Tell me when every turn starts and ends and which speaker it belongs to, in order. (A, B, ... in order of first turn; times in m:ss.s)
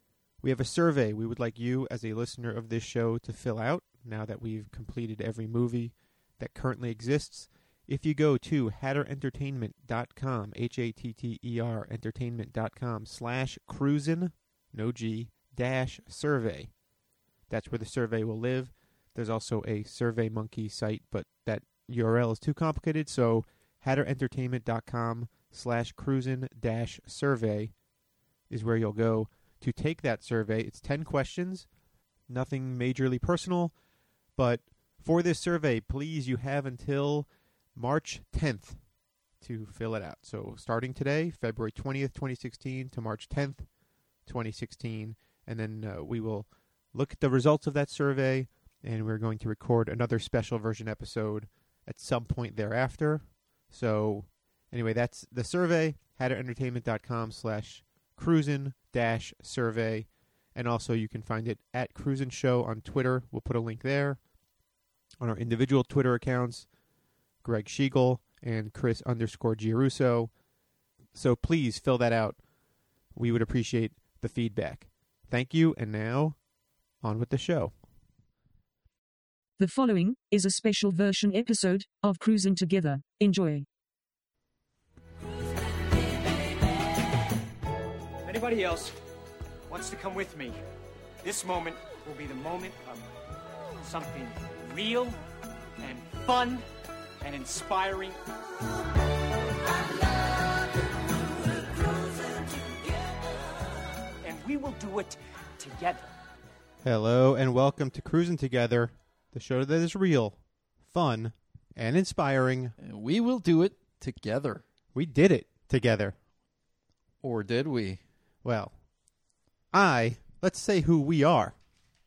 0:00.4-0:16.8 A
0:17.5-0:27.8 A
0:28.5-0:31.7 A
0:32.3-0:33.8 A
0:34.4-0:38.8 A
0:39.4-0:43.7 A
0:44.2-1:04.2 A
1:05.2-1:06.7 A
1:07.4-1:10.3 A
1:11.1-1:12.4 A
1:13.1-1:16.4 A
1:17.0-1:17.7 A
1:19.6-1:23.6 B
1:28.2-1:28.9 C
1:29.7-1:30.6 C
1:31.2-1:33.1 C
1:33.8-1:35.2 C
1:35.8-1:36.6 C
1:37.2-1:38.2 C
1:41.8-1:43.3 C
1:44.2-1:46.1 C
1:46.8-1:52.8 A
1:52.8-1:54.6 D
1:54.9-1:56.1 A
1:57.2-1:58.0 D
1:58.4-1:58.7 A
1:59.7-2:01.5 A